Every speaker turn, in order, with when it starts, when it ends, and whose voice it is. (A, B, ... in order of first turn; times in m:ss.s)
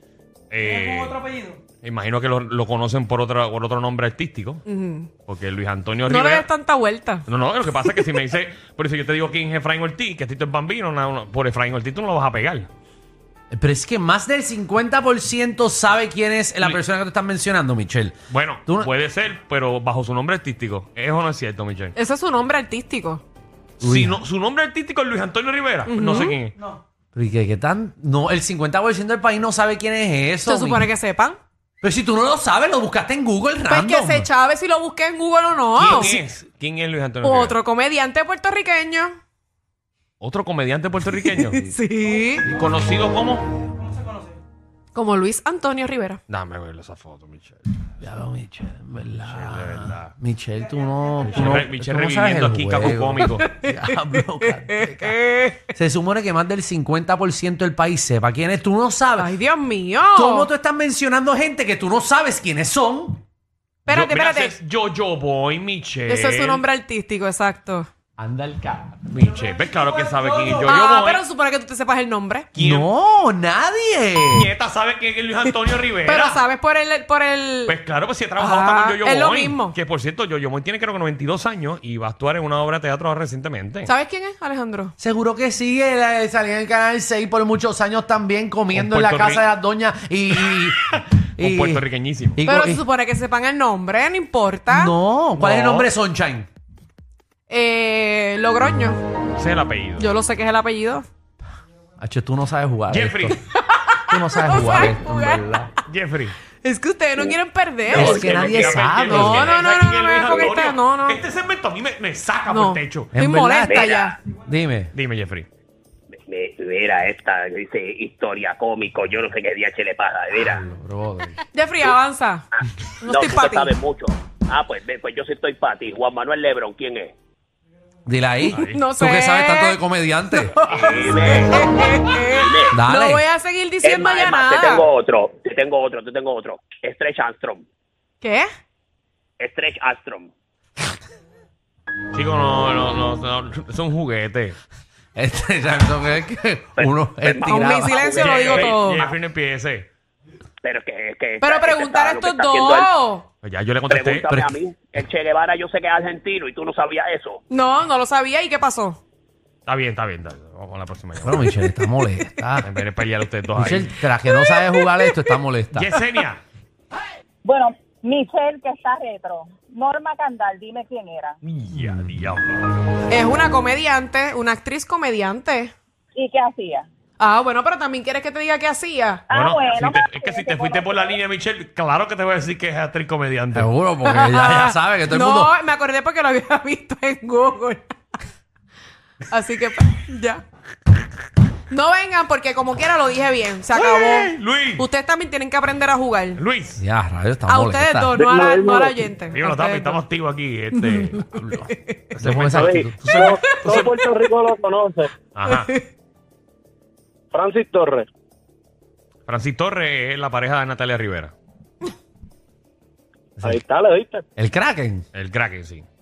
0:00.5-0:01.2 A
0:00.6-0:01.6 B
0:01.8-0:04.6 A
0:04.6-0:05.1 C
0:05.2-0:06.5 A
0:06.1-0:07.2 C
0:07.3-0:12.7 A
0:13.5-0:18.1 D
0:18.3-0:21.9 A
0:21.9-0:23.2 C
0:23.8-0:24.2 D
0:23.8-0:26.5 A
0:25.9-0:26.4 C
0:27.1-0:30.9 D
0:30.4-0:31.4 C
0:31.8-0:34.3 D
0:33.7-0:36.2 C
0:35.8-0:37.6 A
0:37.2-0:39.2 C
0:40.2-0:41.7 A
0:41.3-0:42.5 C
0:42.4-0:43.5 A
0:43.9-0:44.4 B
0:44.9-0:46.2 C
0:46.3-0:47.6 A
0:48.0-0:59.3 D
0:49.2-0:50.1 A
0:51.2-0:53.5 A
0:53.3-0:55.7 C
0:59.2-1:00.5 C
1:00.1-1:03.2 D
1:03.9-1:04.5 C
1:03.9-1:06.6 A
1:06.1-1:07.9 C
1:08.2-1:09.0 D
1:09.1-1:11.2 A
1:09.5-1:10.6 B
1:10.6-1:12.5 C
1:12.6-1:12.9 A
1:12.6-1:14.5 D
1:14.3-1:16.4 A
1:16.0-1:17.8 C
1:17.6-1:23.9 A
1:18.4-1:19.8 C
1:23.8-1:24.9 C
1:25.0-1:31.8 D
1:28.7-1:29.5 A
1:30.3-1:32.4 A
1:32.4-1:32.8 D
1:32.4-1:34.9 C
1:34.7-1:36.5 D
1:35.4-1:35.9 A
1:37.5-1:39.0 C
1:39.4-1:40.1 A
1:40.0-1:41.0 C
1:42.0-1:43.4 D
1:42.9-1:43.4 A
1:43.5-1:45.7 C
1:44.1-1:45.7 D
1:45.9-1:46.4 A
1:46.6-1:51.2 C
1:47.9-1:49.6 D
1:48.0-1:53.1 A
1:48.3-1:48.7 E
1:52.5-1:54.2 C
1:53.1-1:54.9 D
1:53.7-1:54.2 E
1:54.9-1:55.5 A
1:56.1-2:00.6 E
2:00.3-2:01.4 D
2:01.5-2:02.4 C
2:03.0-2:03.7 C
2:03.1-2:07.1 E
2:08.1-2:10.6 D
2:08.5-2:08.8 A
2:08.6-2:14.9 C
2:10.7-2:12.8 E
2:12.7-2:13.2 D
2:13.8-2:17.6 E
2:18.2-2:18.5 C
2:19.4-2:20.3 E
2:22.1-2:24.6 A
2:25.2-2:28.1 D
2:26.8-2:29.1 E
2:27.4-2:29.0 C
2:28.1-2:29.9 A
2:30.6-2:32.9 E
2:31.4-2:33.3 C
2:33.4-2:34.4 A
2:33.9-2:37.4 E
2:37.5-2:39.0 C
2:39.6-2:41.6 A
2:41.2-2:42.7 D
2:42.6-2:44.0 A
2:43.5-2:45.9 D
2:45.7-2:46.4 A
2:47.4-2:51.3 F
2:51.4-2:52.8 A
2:51.8-2:52.1 D
2:53.1-2:55.7 C
2:56.2-2:56.8 F
2:57.2-2:59.2 C
2:59.3-3:03.7 A
2:59.3-2:59.9 F
3:03.5-3:05.5 D
3:04.0-3:08.2 C
3:09.3-3:10.4 C
3:11.7-3:16.4 C
3:13.8-3:14.9 A
3:16.4-3:16.8 A
3:16.8-3:18.2 D
3:17.5-3:20.0 C
3:18.2-3:19.0 G
3:19.3-3:21.2 A
3:20.8-3:22.0 C
3:21.2-3:23.1 D
3:22.1-3:24.1 A
3:22.4-3:25.1 G
3:25.3-3:25.7 A
3:25.5-3:25.9 C
3:27.3-3:28.1 G
3:29.3-3:31.3 A
3:33.4-3:34.2 G
3:34.4-3:35.0 D
3:35.1-3:35.8 A